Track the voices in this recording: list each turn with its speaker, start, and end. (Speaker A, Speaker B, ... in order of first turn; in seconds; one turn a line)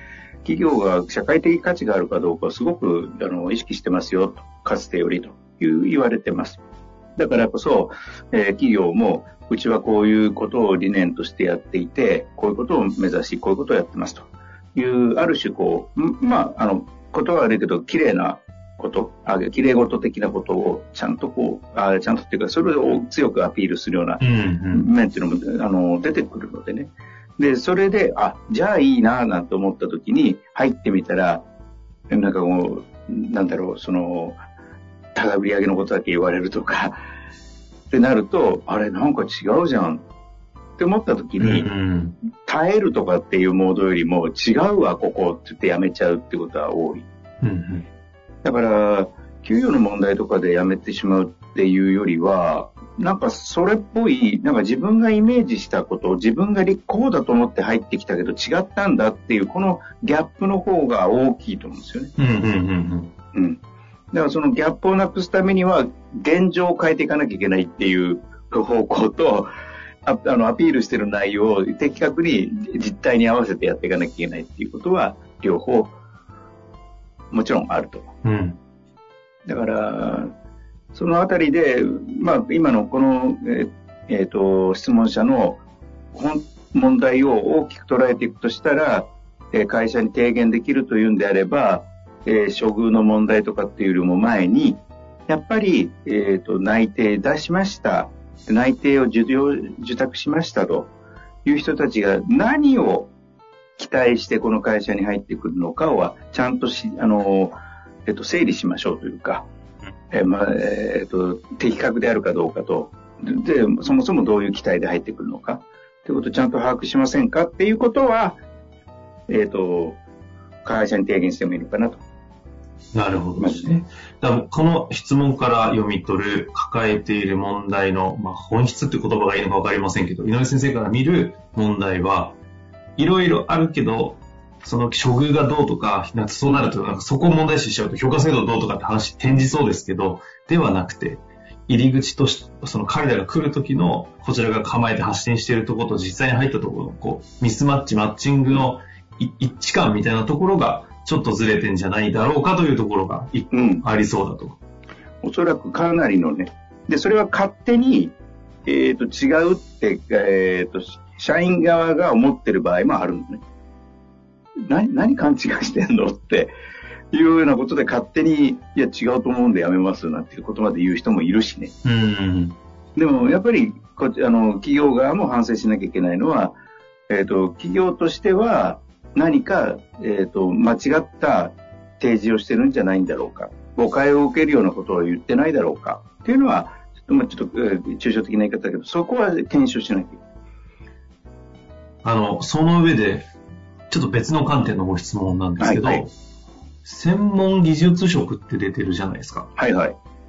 Speaker A: 0.5-6.6
Speaker A: 7.2-24.2
Speaker B: 24.2-24.9
Speaker A: 24.7-31.4
Speaker A: 32.1-34.4
Speaker A: 35.1-37.0
Speaker A: 37.9-40.0
Speaker A: 40.8-41.7
Speaker B: 41.4-42.2
Speaker A: 42.4-47.1
Speaker B: 47.4-47.9
Speaker A: 48.4-62.1
Speaker B: 62.2-63.1
Speaker A: 63.3-63.6
Speaker A: 64.1-69.5
Speaker A: 70.0-76.0
Speaker A: 77.3-78.1
Speaker B: 78.2-78.6
Speaker A: 79.5-80.3
Speaker A: 80.9-85.6
Speaker A: 86.1-100.9
Speaker A: 101.5-103.1
Speaker A: 103.8-107.5
Speaker A: 108.1-109.5
Speaker A: 110.1-118.4
Speaker A: 119.3-120.0
Speaker A: 120.7-122.0
Speaker B: 122.9-132.4
Speaker A: 123.4-123.8
Speaker B: 133.0-154.6
Speaker A: 153.5-153.8
Speaker A: 155.2-158.1
Speaker A: 158.7-163.4
Speaker A: 164.7-166.5
Speaker A: 167.1-171.7
Speaker B: 171.8-172.6
Speaker A: 173.0-176.6
Speaker A: 177.1-190.2
Speaker B: 192.0-193.3
Speaker B: 193.9-196.1
Speaker A: 195.6-196.1
Speaker B: 196.8-199.5
Speaker A: 199.6-200.0